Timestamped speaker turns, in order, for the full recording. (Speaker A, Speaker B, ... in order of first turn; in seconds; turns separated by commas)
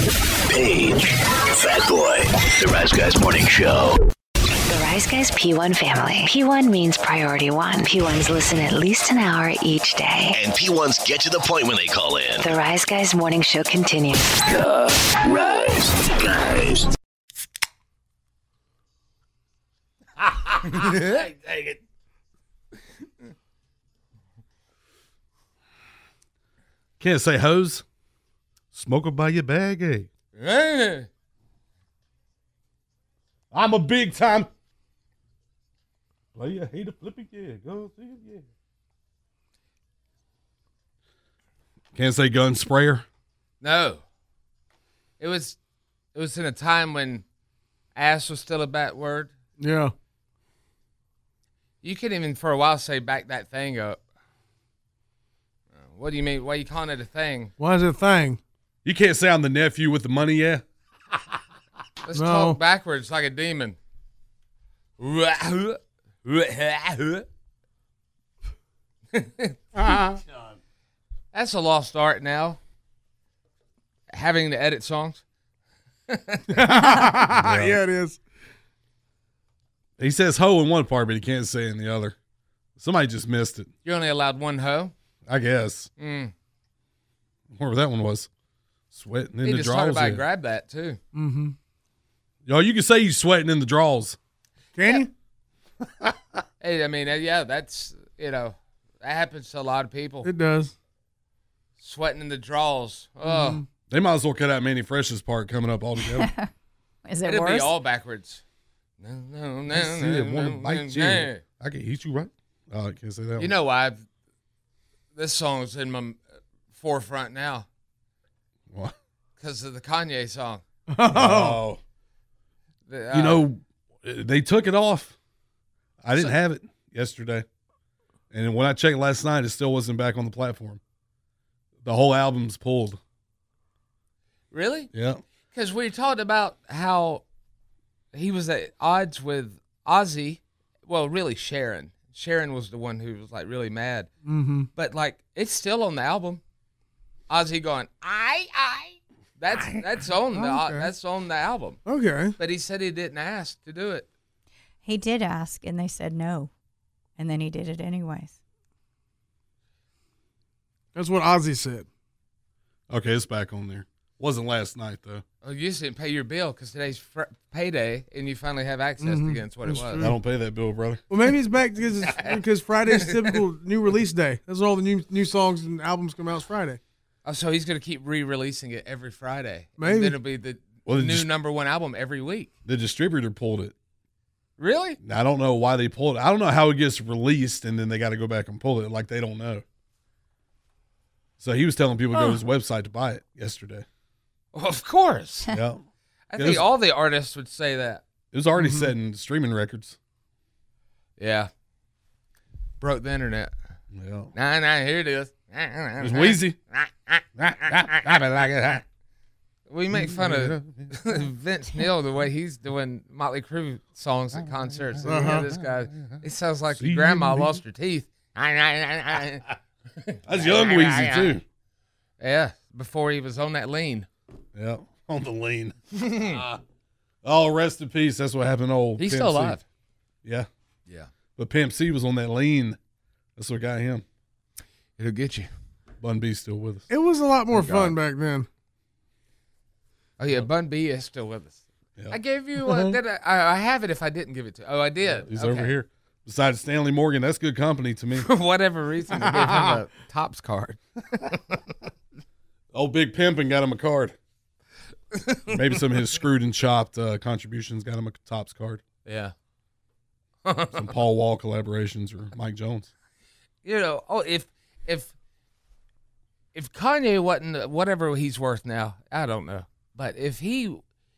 Speaker A: 0.5-4.0, Speaker B: 4.7-10.4, Speaker A: 10.3-12.5, Speaker B: 12.4-14.3, Speaker A: 14.4-16.9, Speaker C: 20.3-21.8, Speaker D: 27.0-27.8, Speaker D: 28.7-30.1, Speaker C: 30.3-31.1, Speaker D: 33.5-34.5, Speaker D: 36.3-38.4, Speaker D: 41.9-43.0, Speaker C: 43.6-44.0, Speaker C: 45.2-45.6, Speaker C: 46.1-47.2, Speaker C: 47.9-49.3, Speaker E: 49.6-49.9, Speaker C: 51.8-54.0, Speaker C: 55.7-57.5, Speaker E: 57.6-58.4, Speaker D: 58.8-60.6, Speaker C: 62.0-63.8, Speaker E: 62.1-62.6, Speaker C: 65.0-67.2, Speaker C: 69.1-70.0, Speaker C: 71.3-72.6, Speaker C: 74.1-75.2, Speaker C: 76.1-76.7, Speaker E: 76.5-78.2, Speaker D: 77.2-77.8, Speaker D: 80.0-82.2, Speaker D: 82.8-83.7, Speaker C: 83.8-84.9, Speaker D: 85.3-85.9, Speaker C: 86.0-86.3, Speaker D: 87.5-88.3, Speaker D: 88.9-90.2, Speaker C: 89.4-91.0, Speaker E: 91.1-91.5, Speaker D: 92.5-94.2, Speaker E: 94.7-95.1, Speaker C: 96.6-100.3, Speaker E: 100.2-100.7, Speaker C: 101.8-103.6, Speaker E: 103.2-103.6, Speaker D: 103.9-106.3, Speaker F: 106.0-106.5, Speaker F: 107.0-107.7, Speaker C: 107.2-108.4, Speaker C: 109.0-111.4, Speaker D: 109.7-113.5, Speaker C: 113.4-114.0, Speaker C: 115.1-116.2, Speaker C: 116.7-117.7, Speaker C: 119.4-120.6, Speaker E: 120.9-121.6, Speaker D: 121.1-121.8, Speaker C: 122.9-123.5, Speaker D: 123.1-125.1, Speaker D: 126.0-127.4, Speaker D: 128.3-130.8, Speaker D: 131.8-133.0, Speaker C: 134.5-134.9, Speaker D: 134.9-135.2, Speaker C: 135.5-137.2, Speaker C: 138.1-144.1, Speaker E: 144.2-144.7, Speaker C: 144.7-146.4, Speaker C: 147.3-151.8, Speaker E: 150.3-150.9, Speaker E: 151.8-152.3, Speaker C: 152.4-154.1, Speaker F: 154.8-156.5, Speaker F: 157.2-158.4, Speaker E: 160.9-161.9, Speaker D: 162.9-165.2, Speaker C: 165.4-170.0, Speaker E: 169.0-170.2, Speaker D: 170.0-171.0, Speaker E: 171.1-176.8, Speaker C: 172.1-172.3, Speaker C: 172.9-173.4, Speaker C: 177.2-182.5, Speaker E: 179.8-180.2, Speaker D: 180.8-181.3, Speaker D: 182.6-183.7, Speaker C: 184.6-185.0, Speaker D: 185.0-189.6, Speaker D: 191.4-193.8, Speaker F: 192.1-192.4, Speaker C: 194.5-195.5, Speaker D: 195.5-195.8, Speaker C: 196.3-198.0, Speaker D: 196.3-196.7, Speaker D: 198.3-199.9, Speaker E: 198.6-198.9, Speaker C: 201.2-201.5, Speaker C: 202.8-203.5, Speaker D: 203.9-204.3, Speaker C: 204.3-207.2, Speaker D: 206.0-206.6, Speaker D: 207.4-208.8, Speaker C: 209.7-219.5, Speaker D: 209.9-211.1, Speaker D: 214.4-216.2, Speaker E: 215.0-215.5, Speaker D: 216.8-217.6, Speaker C: 220.0-221.4, Speaker D: 220.3-221.4, Speaker C: 222.2-224.1, Speaker D: 224.5-226.6, Speaker C: 225.9-226.4, Speaker D: 227.2-229.6, Speaker C: 229.0-229.6, Speaker D: 231.3-232.8, Speaker D: 233.3-234.0, Speaker C: 235.0-235.5, Speaker D: 236.0-236.9, Speaker E: 236.9-238.5, Speaker C: 237.5-237.9, Speaker C: 240.2-245.7, Speaker E: 242.6-242.9, Speaker D: 245.1-248.3, Speaker C: 248.2-251.4, Speaker E: 249.2-249.6, Speaker D: 252.7-254.1, Speaker C: 255.1-255.5, Speaker D: 255.5-258.8, Speaker C: 259.0-259.3, Speaker C: 260.4-260.9, Speaker D: 260.7-262.9, Speaker C: 263.6-265.1, Speaker C: 266.5-270.8